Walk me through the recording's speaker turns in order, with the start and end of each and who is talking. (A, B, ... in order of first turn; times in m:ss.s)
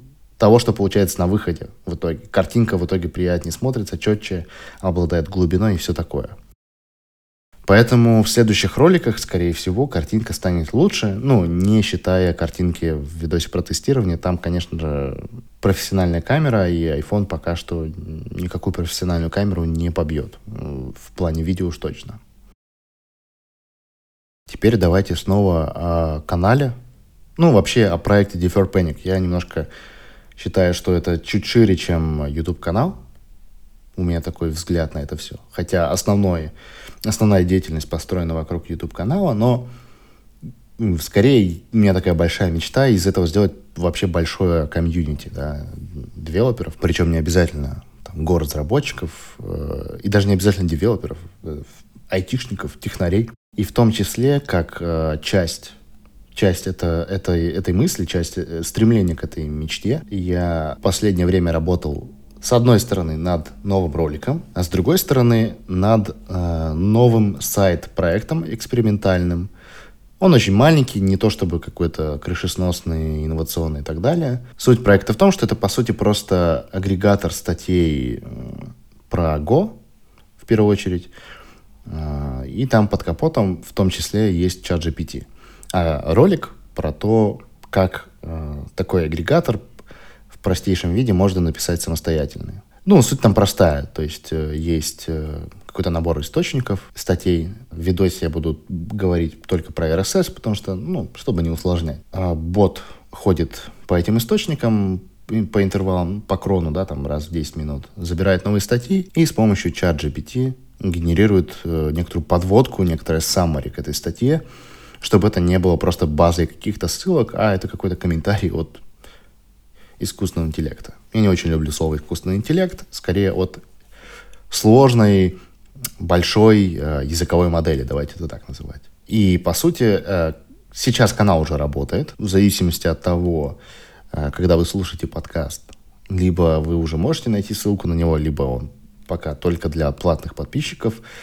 0:00.4-0:06.3 A
0:07.7-0:22.2 A
0:24.5-0:26.8 A
0:27.4-0:29.7 A
0:30.4-0:33.0 A
0:34.0-0:36.5 A
0:37.0-0:39.7 A
0:40.8-0:55.8 A
0:56.3-1:09.5 A
1:10.2-1:19.8 A
1:20.4-1:21.1 A
1:21.9-1:29.6 A
1:30.3-1:54.4 A
1:55.0-1:58.8 A
2:00.0-2:03.6 A
2:04.5-2:05.4 A
2:06.0-2:13.6 A
2:14.1-2:21.0 A